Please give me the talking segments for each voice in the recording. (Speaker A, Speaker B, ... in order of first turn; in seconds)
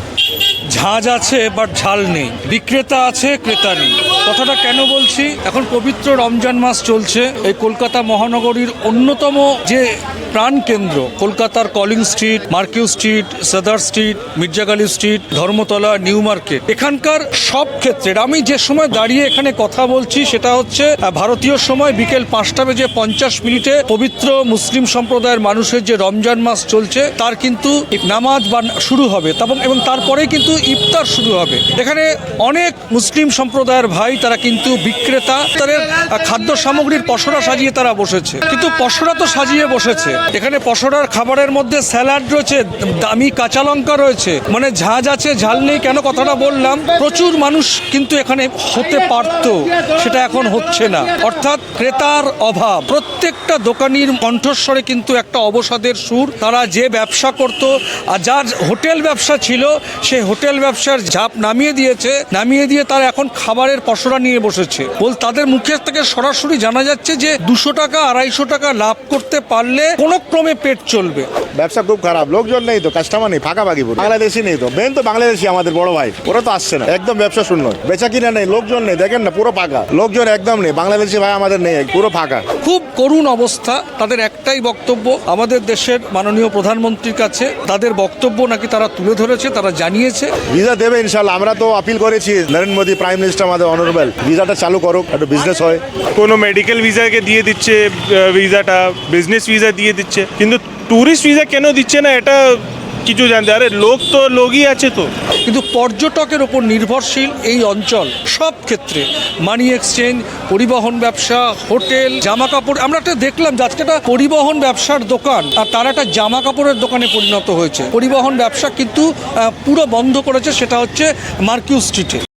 Speaker A: 0.7-71.3, 82.6-90.3, 105.5-122.2
Speaker B: 71.6-82.4, 90.5-95.8
Speaker C: 96.2-102.4, 103.1-105.1